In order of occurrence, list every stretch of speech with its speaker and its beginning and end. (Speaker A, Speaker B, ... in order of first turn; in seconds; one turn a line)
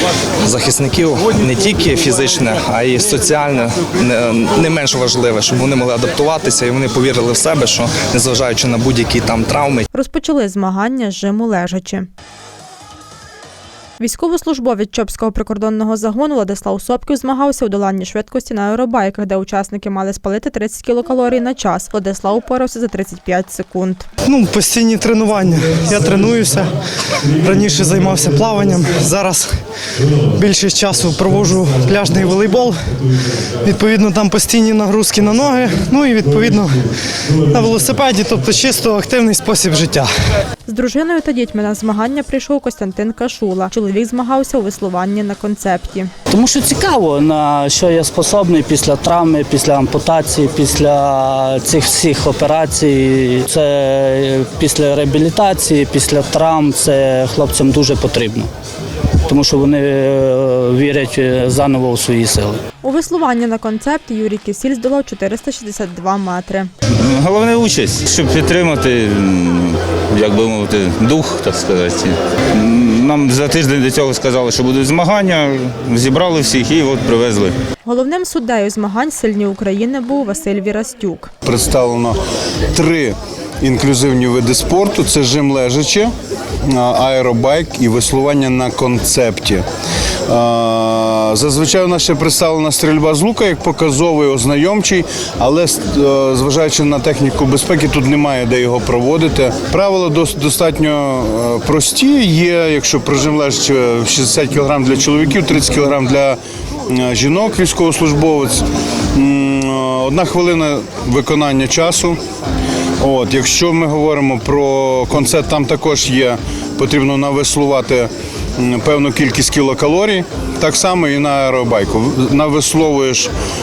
Speaker A: 0.4-9.9
Speaker B: 9.9-12.1
Speaker B: 14.0-24.1
Speaker C: 24.3-26.6
Speaker C: 27.4-29.4
Speaker C: 30.4-32.8
Speaker C: 33.6-36.7
Speaker C: 37.5-40.1
Speaker B: 40.7-46.1
Speaker D: 46.3-58.5
Speaker D: 59.2-62.6
Speaker B: 62.8-66.7
Speaker E: 67.0-77.5
Speaker B: 77.8-81.3
Speaker F: 81.4-82.2
Speaker F: 82.7-86.1
Speaker F: 86.7-89.6
Speaker F: 90.3-112.2
Speaker F: 113.0-123.3